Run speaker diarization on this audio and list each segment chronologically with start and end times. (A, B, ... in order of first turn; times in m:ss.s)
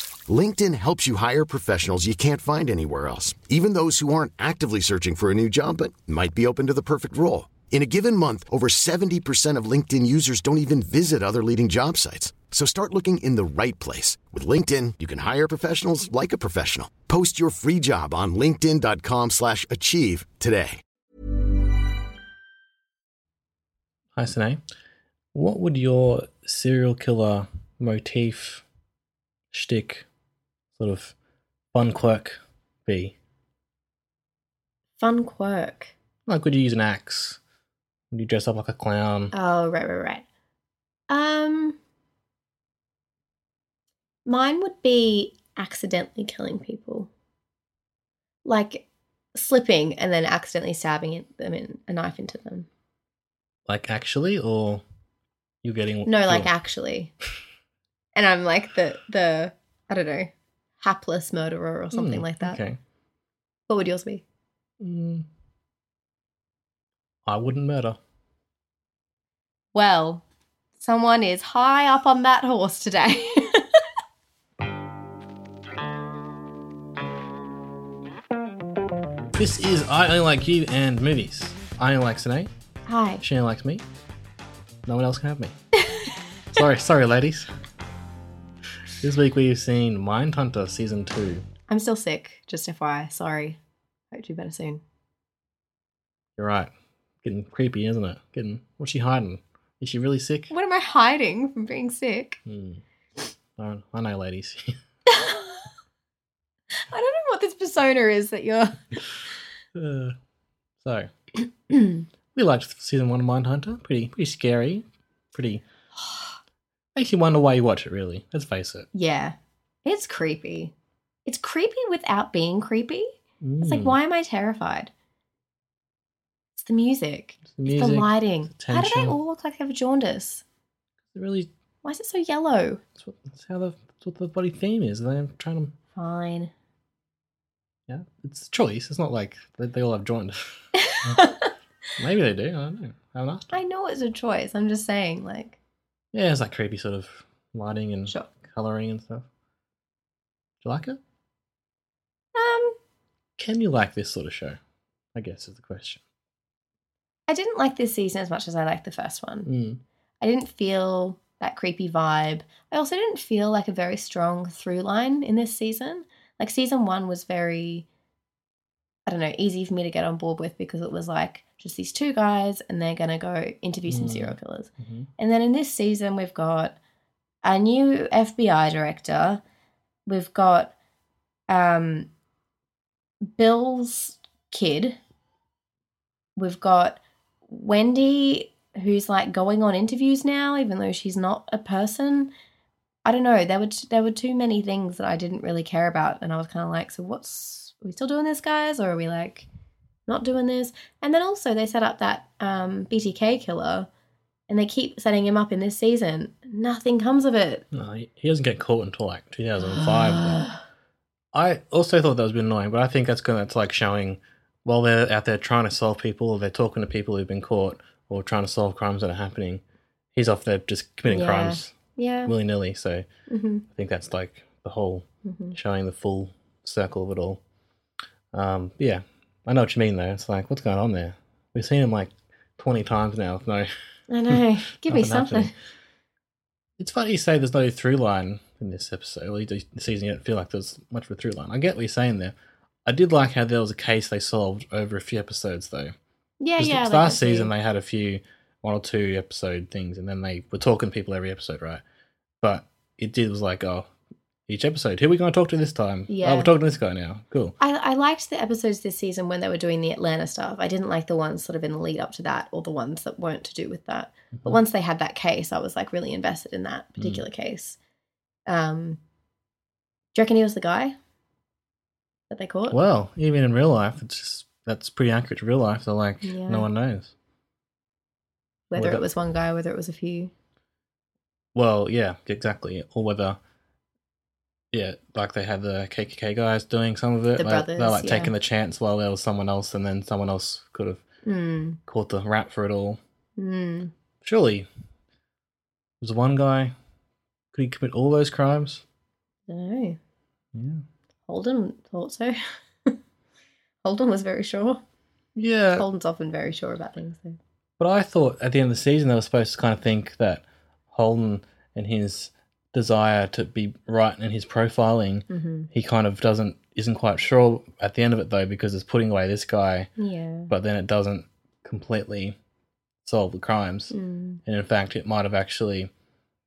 0:00.3-0:20.8 A
0:24.2-0:24.6 B
0:25.3-0:28.6 B
0:29.5-0:30.1 B
0:30.8-0:31.2 B
0:31.7-0:33.2 B
0:35.0-0:35.9 C
0:36.3-0:37.4 B
0:38.1-0:39.3 B
0:39.3-0:40.2 C
0:41.1-0:41.8 C
0:44.3-0:47.1 C
0:48.4-0:52.7 C
0:53.7-0:54.8 B
0:55.6-0:56.5 B
0:56.1-0:57.1 C
0:58.1-1:02.6 C
1:01.9-1:02.8 B
1:03.7-1:04.2 C
1:04.8-1:05.3 B
1:07.3-1:08.0 B
1:09.7-1:10.2 C
1:10.8-1:13.8 C
1:19.4-1:22.5 B
1:22.9-1:23.2 C
1:23.2-1:23.8 B
1:24.9-1:25.5 B
1:26.5-1:27.5 B
1:29.0-1:31.5 B
1:31.7-1:33.6 C
1:34.1-1:34.8 C
1:36.4-1:36.7 B
1:37.2-1:40.5 B
1:40.5-1:42.4 C
1:42.5-1:42.8 B
1:43.6-1:44.8 B
1:45.1-1:45.6 C
1:46.9-1:48.8 C
1:49.8-1:50.1 B
1:50.8-1:51.1 B
1:51.7-1:55.6 B
1:57.0-1:58.9 B
1:58.9-2:00.7 C
2:01.2-2:03.1 C
2:03.4-2:04.0 B
2:03.6-2:04.9 C
2:06.6-2:10.4 C
2:07.4-2:09.2 B
2:11.1-2:11.5 B
2:11.8-2:12.8 C
2:13.0-2:15.7 B
2:16.0-2:16.5 C
2:17.9-2:20.4 B
2:22.0-2:23.6 B
2:23.5-2:25.6 C
2:26.1-2:29.2 B
2:30.6-2:31.0 B
2:32.4-2:32.8 C
2:33.4-2:34.6 B
2:35.2-2:36.0 B
2:37.3-2:39.5 C
2:39.5-2:39.8 B
2:40.2-2:47.9 C
2:49.1-2:56.8 C
2:53.9-2:55.1 B
2:57.4-2:59.4 C
3:00.1-3:00.7 C
3:01.5-3:02.1 C
3:03.4-3:05.0 C
3:06.4-3:12.3 C
3:13.0-3:19.5 C
3:20.1-3:23.9 C
3:24.5-3:27.6 C
3:27.7-3:30.5 B
3:31.3-3:39.6 B
3:40.2-3:43.1 B
3:41.1-3:42.3 C
3:43.3-3:43.6 C
3:43.7-3:47.4 B
3:45.2-3:45.6 C
3:48.3-3:53.7 B
3:54.1-3:55.5 C
3:54.3-3:55.5 B
3:56.8-4:05.9 B
4:06.4-4:07.5 C
4:06.6-4:11.8 B
4:12.4-4:13.9 B
4:14.5-4:17.6 B
4:16.1-4:16.5 C
4:17.6-4:27.8 C
4:27.0-4:27.2 B
4:28.5-4:29.0 C
4:30.1-4:31.0 C
4:32.3-4:32.8 C
4:32.7-4:37.1 B
4:36.2-4:36.7 C
4:38.7-4:39.1 B
4:38.7-4:40.3 C
4:41.6-4:43.4 B
4:44.7-4:51.0 B
4:47.4-4:48.3 C
4:51.2-4:51.8 C
4:51.9-4:53.0 B
4:53.4-4:53.9 C
4:54.2-4:54.7 B
4:56.0-4:56.7 B
4:57.5-4:58.8 B
4:59.5-5:00.0 C
5:00.6-5:00.8 B
5:01.3-5:03.0 C
5:03.8-5:04.8 C
5:05.4-5:05.9 B
5:05.8-5:07.4 C
5:07.8-5:19.9 B
5:15.3-5:15.7 C
5:20.0-5:20.5 C
5:20.5-5:22.4 B
5:23.0-5:24.0 B
5:23.9-5:24.4 C
5:24.5-5:25.9 B